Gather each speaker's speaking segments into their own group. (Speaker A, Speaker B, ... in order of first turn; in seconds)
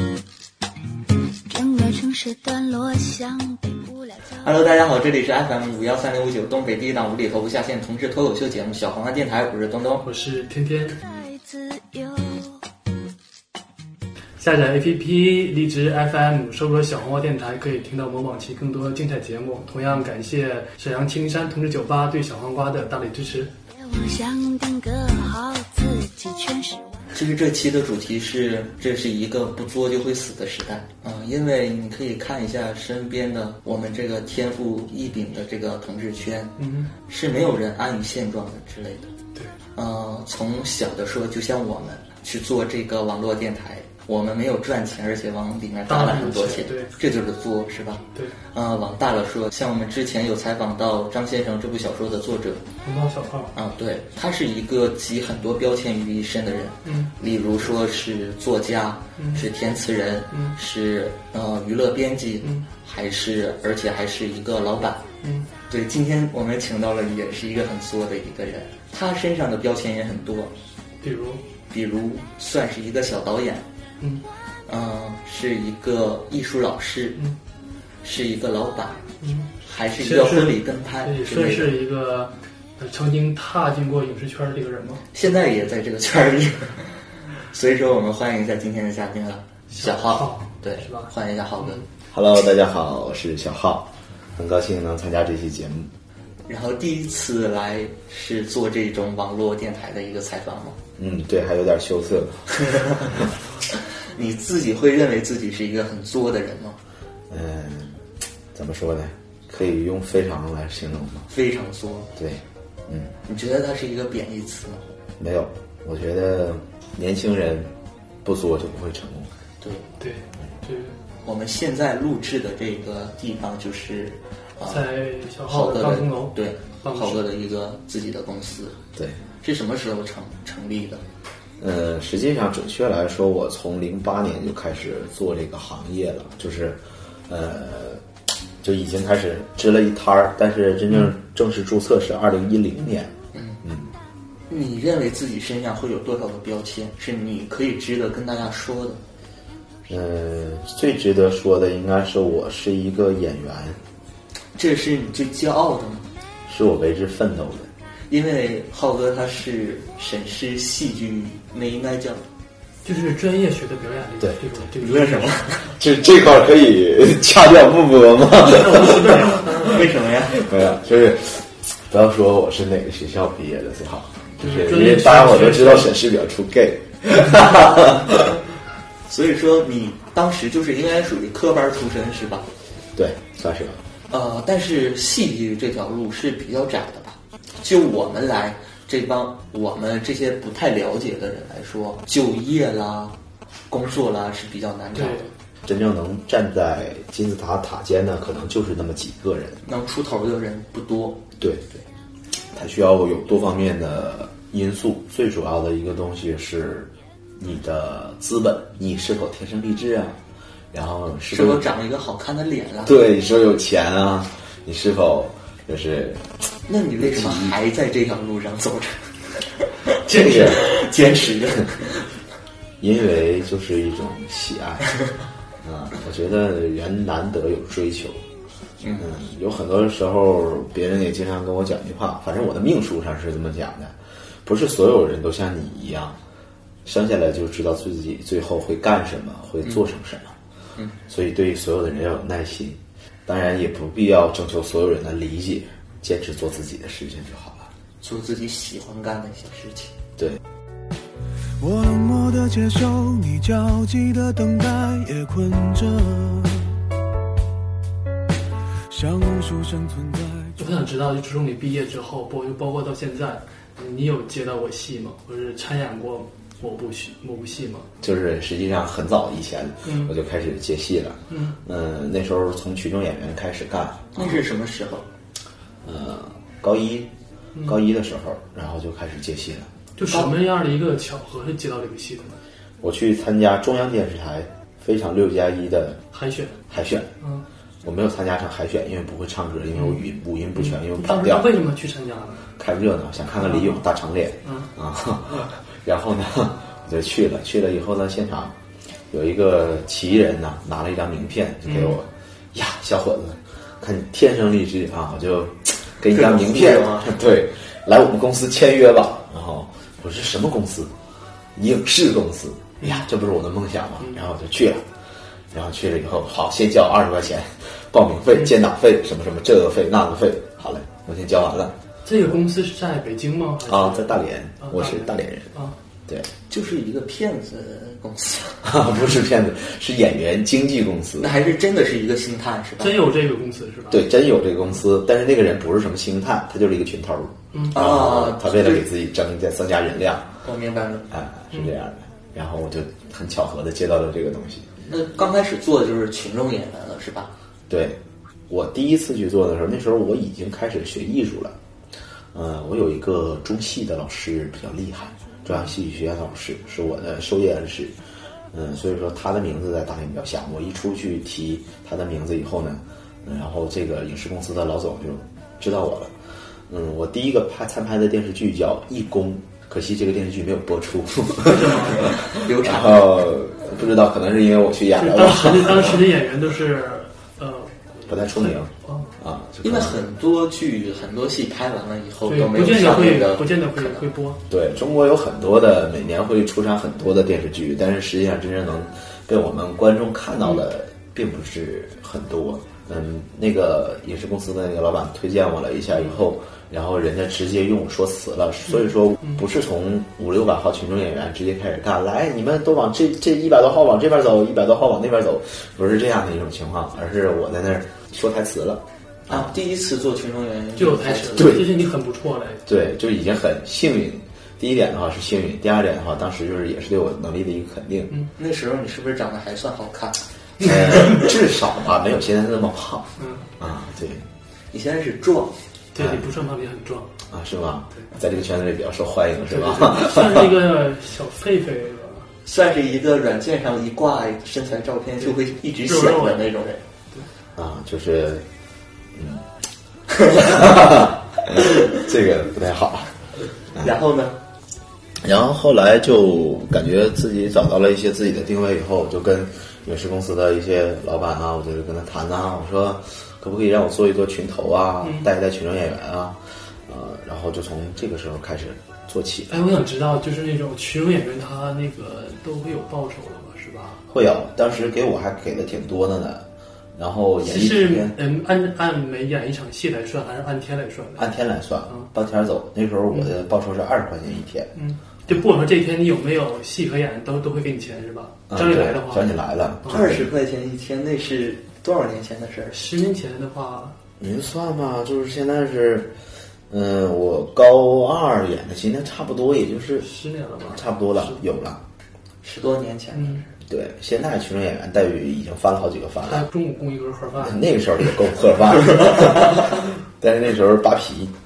Speaker A: 1.4-4.5, 10.9-12.6, 23.7-27.0
Speaker B: 4.4-10.0, 27.1-39.1, 39.7-52.6, 53.5-65.0, 65.7-70.5, 71.7-73.7, 74.7-77.2, 78.0-79.0, 79.6-81.8, 85.1-91.8, 96.5-100.8, 102.6-103.0, 103.7-106.8, 111.3-112.1, 113.2-115.0, 119.6-119.9, 121.2-124.9, 125.5-128.8, 129.4-131.0, 143.3-143.6, 144.5-149.0, 154.6-156.1, 158.1-162.2, 164.8-165.7, 169.3-170.4, 179.1-182.5, 184.1-193.2, 193.7-195.3, 199.6-201.2, 211.3-213.0, 216.7-222.1, 228.8-229.1, 248.0-249.9, 274.1-275.1, 306.1-307.2, 326.5-328.7, 331.2-333.0, 337.7-338.8, 340.4-341.1, 344.9-347.3, 372.0-373.3, 379.6-384.0, 409.3-411.5, 418.4-421.3, 424.7-425.6, 432.4-436.8, 440.1-441.0, 443.8-444.4, 479.9-482.8, 492.4-493.4
Speaker C: 10.0-11.0, 14.4-23.5, 36.6-36.9, 45.9-46.9, 52.8-53.5, 56.8-57.1, 59.2-59.4, 65.2-65.5, 71.0-71.4, 79.2-85.1, 89.7-91.1, 120.0-121.0, 124.7-127.2, 162.8-165.3, 168.4-169.8, 174.4-175.9, 194.9-195.3, 260.6-267.9, 269.8-270.1, 271.3-271.6, 280.0-282.4, 286.1-286.6, 289.8-290.0, 290.6-292.5, 293.4-293.8, 294.4-294.7, 301.6-302.0, 322.0-325.8, 332.8-334.1, 371.4-372.1, 374.9-379.1, 382.3-384.4, 410.8-412.6, 423.2-423.5, 425.9-427.1, 429.5-432.3, 435.9-436.5, 459.5-464.0, 467.4-471.3, 474.8-479.3, 482.7-484.0, 490.0-491.4, 493.1-493.4, 496.3-497.6
Speaker D: 92.1-95.9, 101.0-102.4, 103.0-103.3, 107.3-108.0, 108.5-111.2, 112.2-113.1, 115.2-117.7, 118.2-119.3, 131.6-138.0, 138.6-143.9, 149.9-153.8, 156.5-157.7, 165.8-169.7, 170.3-178.3, 182.9-183.8, 195.6-199.6, 201.4-201.8, 202.5-210.2, 210.7-211.7, 212.8-216.3, 217.0-217.5, 220.1-220.7, 222.8-224.9, 225.6-228.2, 229.0-236.2, 236.8-240.3, 241.1-247.7, 268.0-274.3, 275.8-277.1, 277.6-279.7, 282.8-286.0, 286.7-287.1, 287.8-291.5, 292.6-298.6, 299.1-310.9, 311.5-314.9, 315.5-321.8, 323.6-326.3, 328.6-331.3, 333.9-340.4, 341.1-344.8, 347.7-351.5, 352.3-358.0, 358.5-366.1, 366.7-376.1, 378.1-380.0, 384.5-409.5, 411.4-411.8, 412.6-418.1, 420.6-424.2, 426.0-426.3, 427.3-430.6, 437.6-438.4, 439.1-439.4, 440.4-443.1, 445.2-459.6, 464.1-468.2, 471.2-474.7, 478.5-480.3, 484.2-486.1, 486.7-490.1, 490.6-491.8, 493.6-496.5, 497.4-501.3
Speaker E: 251.6-256.7, 258.9-260.6